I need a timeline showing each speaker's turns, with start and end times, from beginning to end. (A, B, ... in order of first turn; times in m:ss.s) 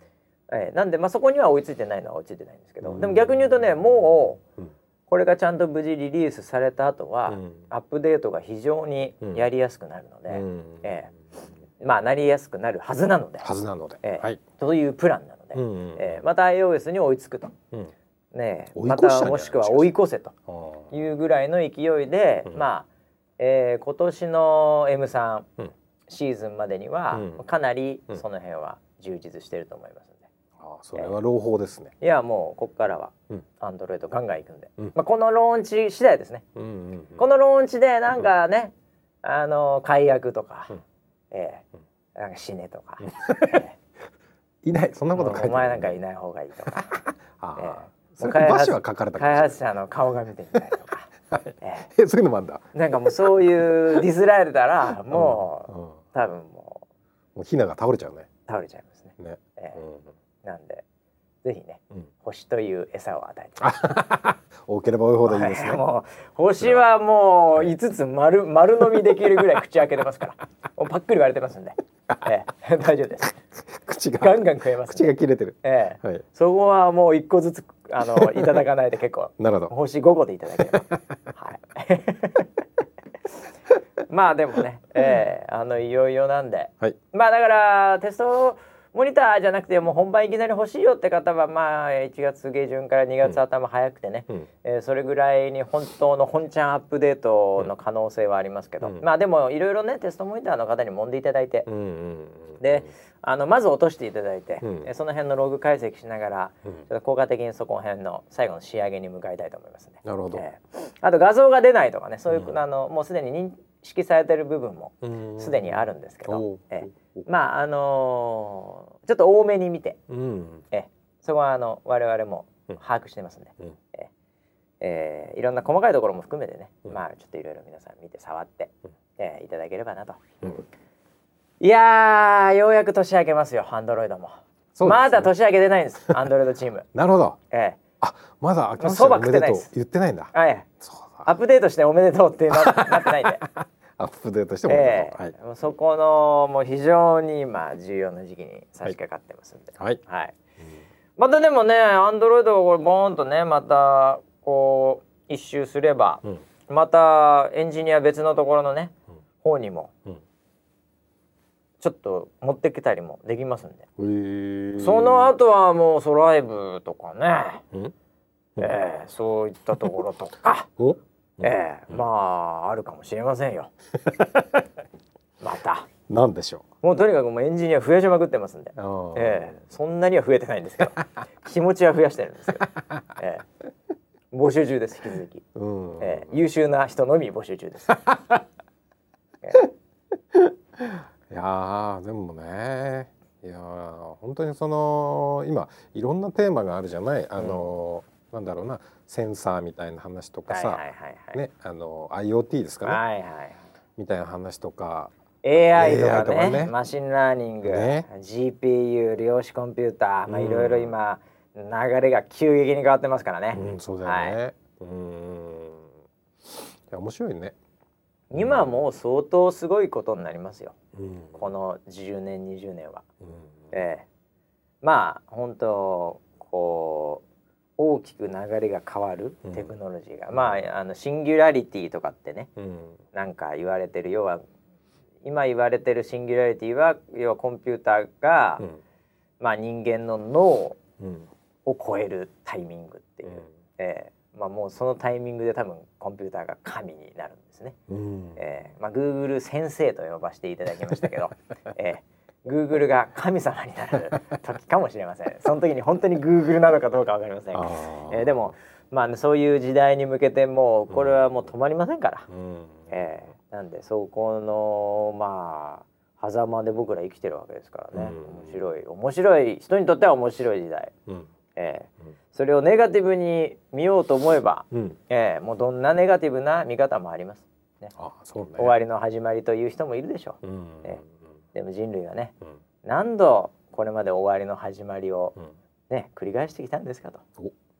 0:00.5-0:04.4 A
0:02.8-0:03.5 B
0:05.1-0:11.1 A
0:07.3-0:07.6 B
0:10.3-0:11.0 B
0:11.8-0:13.5 A
0:13.4-0:14.4 B
0:14.0-0:17.6 A
0:15.6-0:16.2 B
0:18.3-0:20.3 A
0:18.8-0:19.9 B
0:20.5-0:20.9 B
0:20.9-0:22.9 A
0:23.4-0:25.5 A
0:26.1-0:30.3 A
0:27.1-0:27.4 B
0:30.6-0:31.9 B
0:32.0-0:36.4 A
0:36.6-0:37.2 B
0:37.2-0:40.7 A
0:41.3-0:41.6 A
0:42.2-0:43.8 A
0:43.3-0:43.6 B
0:44.6-0:46.0 B
0:45.1-0:47.0 A
0:46.9-0:49.6 B
0:47.6-0:51.9 A
0:51.3-0:53.3 B
0:52.7-0:56.8 A
0:55.1-0:56.0 B
0:57.4-0:58.3 B
0:58.5-0:59.8 A
0:59.2-1:00.1 B
1:00.4-1:00.8 A
1:01.4-1:03.6 A
1:03.6-1:05.8 B
1:05.3-1:13.4 A
1:13.7-1:16.2 B
1:14.2-1:22.5 A
1:18.0-1:18.6 B
1:19.4-1:19.7 B
1:20.6-1:21.0 B
1:24.1-1:41.7 A
1:41.7-1:42.9 B
1:42.6-2:00.0 A
1:44.6-1:44.9 B
1:50.0-1:50.4 B
1:55.0-1:57.2 B
2:00.1-2:00.7 B
2:00.7-2:04.1 A
2:04.8-2:10.2 A
2:11.6-2:16.9 A
2:14.8-2:15.3 B
2:16.9-2:17.4 B
2:17.5-2:17.8 A
2:18.0-2:21.3 B
2:18.8-2:19.7 A
2:20.3-2:20.7 A
2:21.2-2:23.4 A
2:22.5-2:25.3 B
2:24.7-2:30.4 A
2:31.2-2:39.9 A
2:41.8-2:43.9 A
2:44.0-2:45.3 B
2:44.8-2:47.6 A
2:48.6-2:50.7 A
2:50.8-2:51.5 B
2:51.4-2:53.7 A
2:54.1-2:54.4 B
2:55.4-2:55.9 A
2:56.1-2:56.6 B
2:56.8-3:03.4 A
2:58.8-2:59.6 B
3:04.3-3:05.4 A
3:05.6-3:06.4 B
3:06.0-3:08.1 A
3:10.3-3:23.0 B
3:20.5-3:21.4 A
3:22.8-3:23.6 A
3:24.0-3:25.1 B
3:25.4-3:34.4 A
3:25.7-3:26.7 B
3:27.6-3:28.1 B
3:30.3-3:30.9 B
3:33.5-3:35.9 B
3:36.5-3:37.6 B
3:38.3-3:40.8 A
3:38.4-3:38.8 B
3:41.0-3:41.4 B
3:41.4-3:43.0 A
3:43.2-3:43.5 B
3:43.7-3:44.0 A
3:44.8-3:47.2 A
3:47.8-3:52.5 A
3:52.6-3:53.0 B
3:53.1-3:54.4 A
3:55.2-3:58.6 A
3:59.4-4:00.8 A
4:01.0-4:01.3 B
4:01.7-4:07.8 A
4:07.9-4:08.4 B
4:08.4-4:22.3 A
4:17.5-4:18.4 B
4:20.9-4:21.2 B
4:22.3-4:22.9 B
4:22.9-4:30.9 A
4:27.9-4:28.6 B
4:31.6-4:37.9 A
4:34.7-4:35.0 B
4:38.0-4:38.7 B
4:38.6-4:41.0 A
4:40.4-4:41.1 B
4:41.6-4:42.3 A
4:42.8-4:45.4 A
4:45.9-4:47.2 A